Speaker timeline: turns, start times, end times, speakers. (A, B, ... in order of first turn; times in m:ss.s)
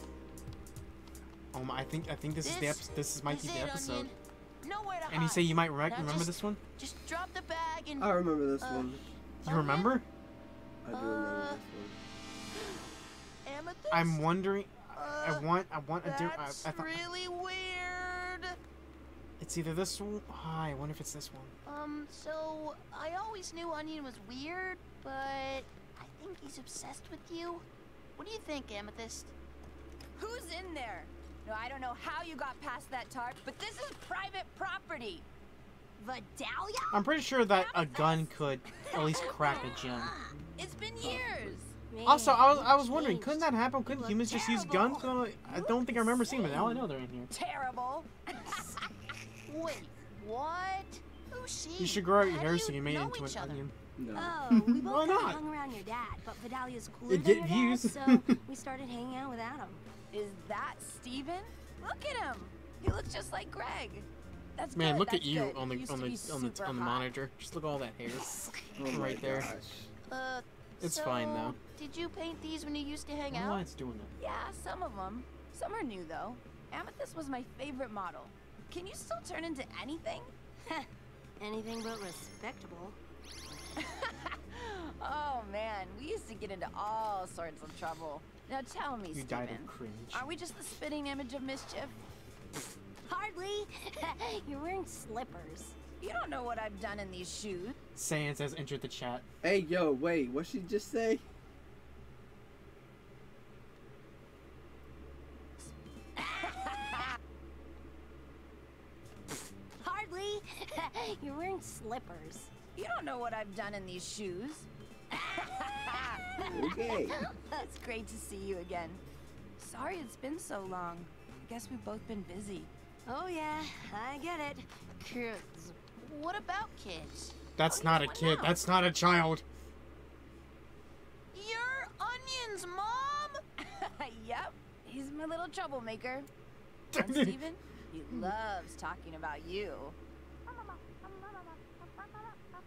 0:01.5-0:04.1 A
0:02.4-0:10.0 B
0:05.1-0:06.6 A
0:08.0-0:09.0 C
0:09.4-0:10.0 A
0:10.8-0:12.0 C
0:10.9-0:11.6 B
0:13.4-0:14.3 B
0:13.9-0:17.0 A
0:14.9-0:15.4 B
0:16.0-0:18.6 B
0:19.4-0:21.5 A
0:21.6-0:27.6 B
0:28.2-0:29.3 B
0:30.1-0:35.2 D
0:36.0-0:36.4 D
0:36.0-0:36.8 E
0:36.9-0:40.1 A
0:37.5-0:38.3 D
0:39.0-0:39.6 D
0:39.3-0:40.3 E
0:40.6-0:41.7 D
0:41.0-0:41.5 C
0:41.9-0:44.9 E
0:42.0-0:47.3 A
0:44.3-0:45.1 B
0:45.5-0:46.8 E
0:47.3-0:48.9 D
0:49.4-0:53.6 B
0:51.8-0:53.7 A
0:54.0-0:54.4 C
0:54.1-0:59.8 E
0:54.5-0:55.4 A
0:57.1-0:58.4 A
1:00.1-1:07.1 D
1:04.7-1:09.5 A
1:08.8-1:09.9 C
1:10.0-1:13.6 B
1:10.8-1:11.6 A
1:13.3-1:14.1 A
1:14.2-1:20.3 D
1:21.4-1:23.0 E
1:23.8-1:31.9 D
1:29.1-1:30.2 A
1:33.1-1:35.7 E
1:36.0-1:37.8 D
1:38.0-1:39.2 A
1:39.4-1:41.2 C
1:46.2-1:47.0 D
1:49.8-1:52.5 E
1:52.7-1:59.0 D
1:56.5-1:57.2 C
1:59.6-2:02.7 D
2:03.0-2:05.8 E
2:06.0-2:07.4 B
2:07.6-2:09.4 A
2:07.6-2:08.6 D
2:11.3-2:13.4 B
2:13.6-2:16.3 D
2:16.9-2:17.4 A
2:16.9-2:20.0 D
2:20.5-2:22.3 E